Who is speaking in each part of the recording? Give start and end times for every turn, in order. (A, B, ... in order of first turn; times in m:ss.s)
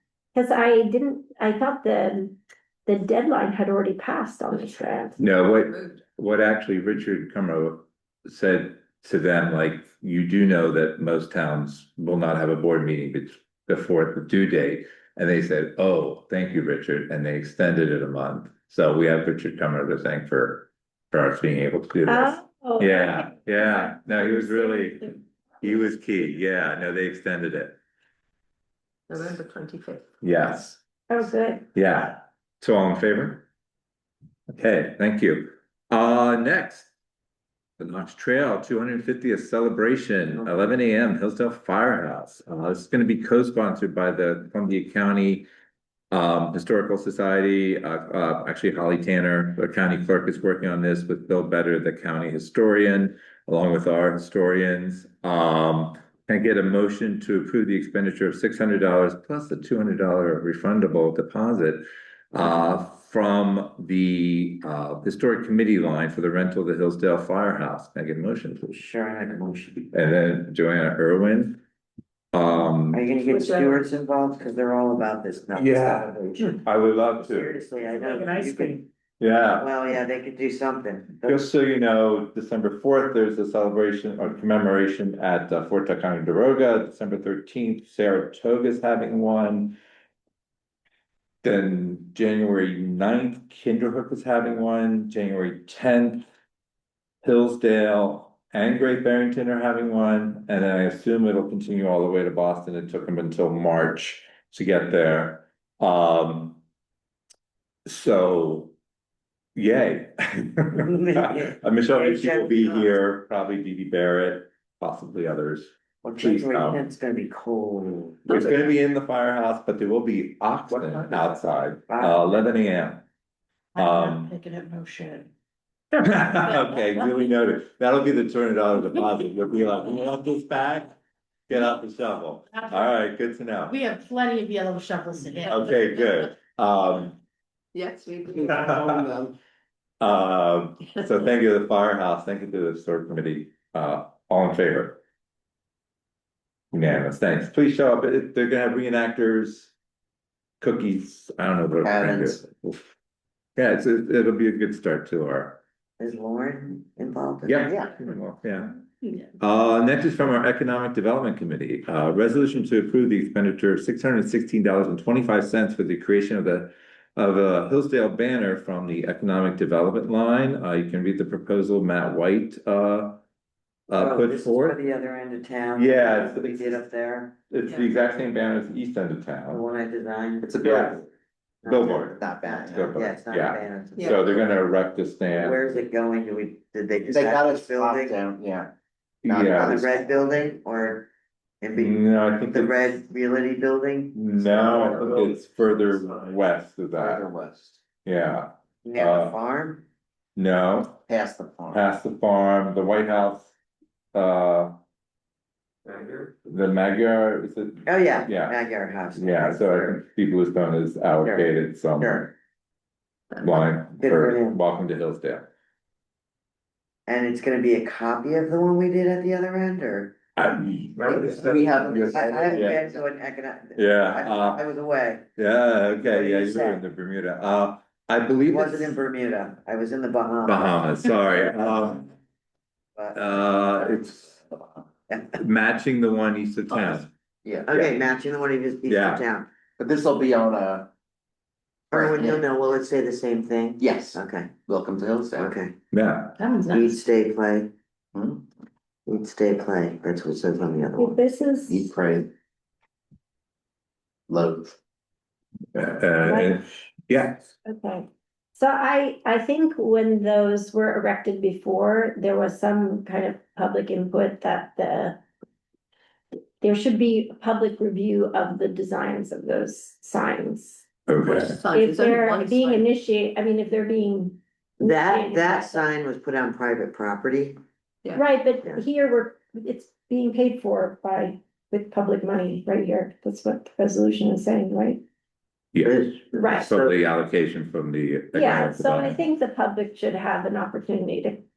0:00.3-0:05.2 A
0:05.2-0:27.8 B
0:22.1-0:25.2 A
0:29.1-0:30.0 C
0:30.2-0:30.8 B
0:31.1-0:31.7 A
0:31.7-0:33.5 B
0:34.5-0:36.9 B
0:37.8-0:45.5 B
0:46.1-1:08.7 B
1:08.7-1:09.9 D
1:09.9-1:11.6 B
1:12.3-1:13.0 B
1:12.9-1:16.6 D
1:13.4-1:13.8 E
1:15.5-1:17.5 B
1:17.2-1:18.8 D
1:17.9-1:18.8 E
1:19.2-1:19.7 B
1:19.6-1:21.5 D
1:21.2-1:29.8 B
1:31.4-1:36.3 B
1:37.2-1:46.6 B
1:47.8-1:48.7 B
1:49.5-1:56.8 B
1:50.8-1:52.9 D
1:56.0-1:58.5 D
1:58.3-2:03.0 B
2:01.9-2:02.2 D
2:03.7-2:05.3 E
2:03.8-2:04.3 B
2:05.9-2:07.0 E
2:06.0-2:11.0 B
2:11.5-2:13.8 B
2:12.5-2:13.0 E
2:13.7-2:15.6 E
2:15.5-2:17.2 B
2:17.7-2:19.1 C
2:18.6-2:19.0 B
2:20.0-2:25.0 B
2:26.7-2:29.7 B
2:30.6-2:32.9 B
2:31.8-2:32.4 F
2:33.6-2:35.6 B
2:36.0-2:37.8 D
2:37.4-2:38.7 B
2:39.4-2:53.2 B
2:53.9-2:54.8 B
2:53.9-2:57.4 D
2:55.8-2:56.8 B
2:57.5-2:59.6 B
2:59.5-3:00.9 D
3:00.4-3:01.0 F
3:00.6-3:01.0 B
3:01.6-3:02.2 D
3:01.6-3:05.6 B
3:02.1-3:03.0 F
3:02.8-3:04.6 D
3:05.3-3:08.2 D
3:07.1-3:08.7 F
3:09.2-3:09.8 B
3:09.3-3:09.9 F
3:09.5-3:11.1 D
3:11.6-3:12.0 D
3:11.8-3:13.0 B
3:12.5-3:15.0 D
3:14.1-3:17.2 B
3:14.6-3:15.3 F
3:16.9-3:17.8 F
3:18.0-3:19.4 B
3:18.8-3:19.8 D
3:20.4-3:21.0 B
3:21.1-3:21.8 F
3:21.7-3:23.5 B
3:24.1-3:24.8 B
3:25.9-3:26.3 F
3:26.4-3:28.6 B
3:27.8-3:30.0 D
3:29.1-3:32.3 B
3:31.2-3:32.3 D
3:33.4-3:35.4 B
3:34.0-3:34.6 D
3:37.1-3:40.2 D
3:40.4-3:42.8 B
3:41.0-3:43.0 F
3:41.9-3:45.2 D
3:43.8-3:44.6 B
3:45.4-3:49.0 B
3:45.9-3:46.8 D
3:48.5-3:50.8 D
3:50.5-3:52.1 B
3:53.1-3:54.4 B
3:55.1-3:55.4 D
3:55.4-3:57.1 B
3:57.4-3:57.9 F
3:57.6-3:59.5 D
3:58.9-3:59.2 B
3:59.8-4:00.9 F
4:01.9-4:04.5 D
4:01.9-4:02.4 F
4:03.8-4:05.5 F
4:05.4-4:05.7 D
4:05.9-4:06.3 B
4:06.4-4:07.0 E
4:06.7-4:07.7 D
4:08.1-4:08.4 F
4:09.1-4:11.2 D
4:11.0-4:11.9 A
4:11.7-4:12.3 F
4:14.3-4:14.8 F
4:15.7-4:17.5 B
4:16.2-4:16.6 A
4:17.6-4:25.2 A
4:26.6-4:30.8 A
4:31.1-4:31.6 B
4:31.2-4:32.8 C
4:31.7-4:35.9 A
4:34.8-4:37.6 D
4:38.1-4:45.0 A
4:45.7-4:49.2 B
4:45.8-4:46.9 D
4:46.4-4:46.7 A
4:48.3-4:51.4 A